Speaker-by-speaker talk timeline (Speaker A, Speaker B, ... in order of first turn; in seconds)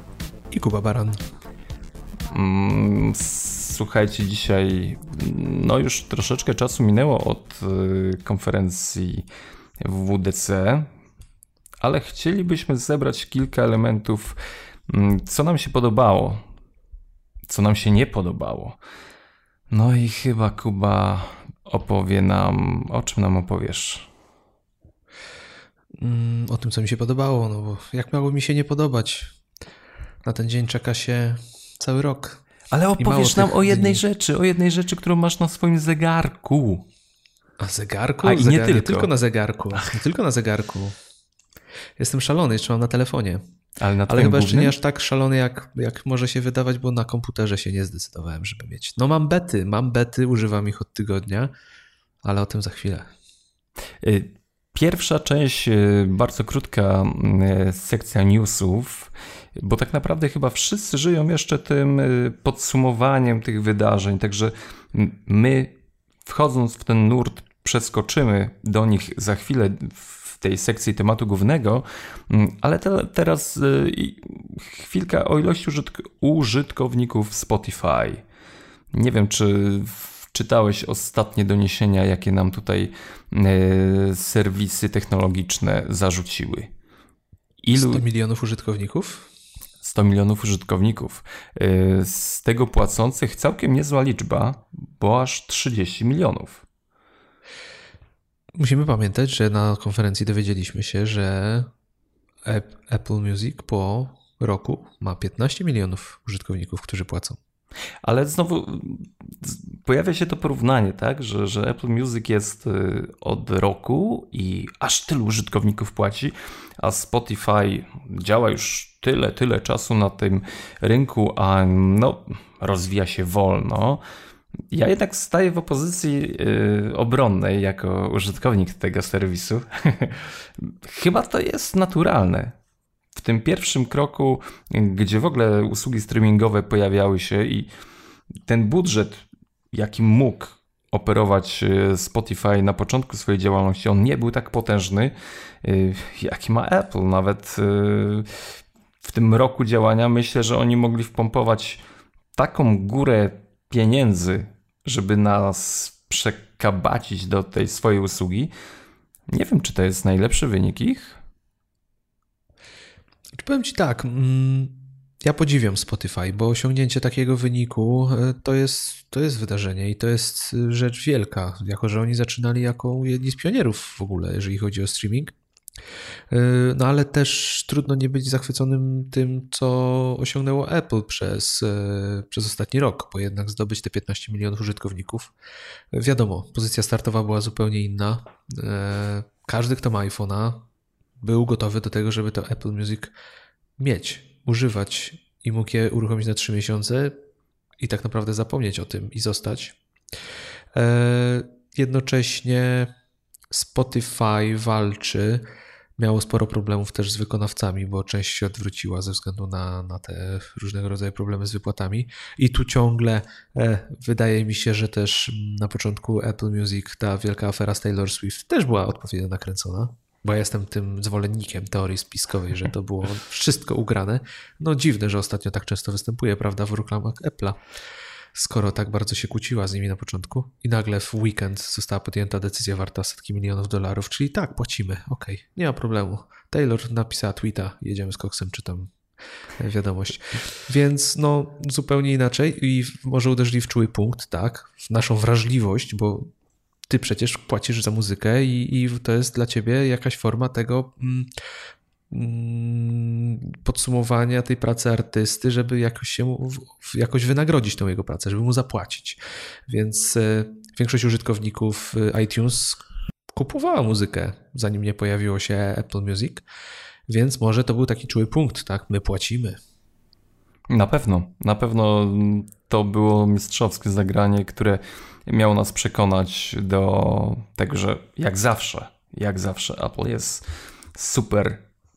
Speaker A: 0.5-1.2, 26.0-29.4, 30.2-32.4, 33.0-34.0, 37.6-41.0, 42.0-43.4, 44.1-51.5, 52.2-53.1, 87.7-89.3, 98.5-101.7, 102.5-107.4, 163.3-175.3, 176.3-185.3, 185.9-190.6, 191.2-193.1, 193.8-197.1, 197.8-199.8, 200.7-202.9, 203.5-205.4, 206.0-227.6, 228.3-238.9, 239.6-246.3, 246.9-251.3, 252.1-266.4, 267.1-269.6
Speaker B: 2.3-9.3, 9.8-10.9, 11.8-14.4, 14.9-16.4, 17.5-18.8, 19.7-24.1, 32.7-36.9, 38.2-39.1, 43.8-44.7, 54.0-78.2, 78.9-86.7, 87.6-88.0, 89.8-96.6, 108.0-124.0, 124.7-132.5, 133.1-137.7, 138.4-148.4, 149.0-151.8, 152.3-158.5, 159.3-161.2, 270.7-280.4, 280.9-281.6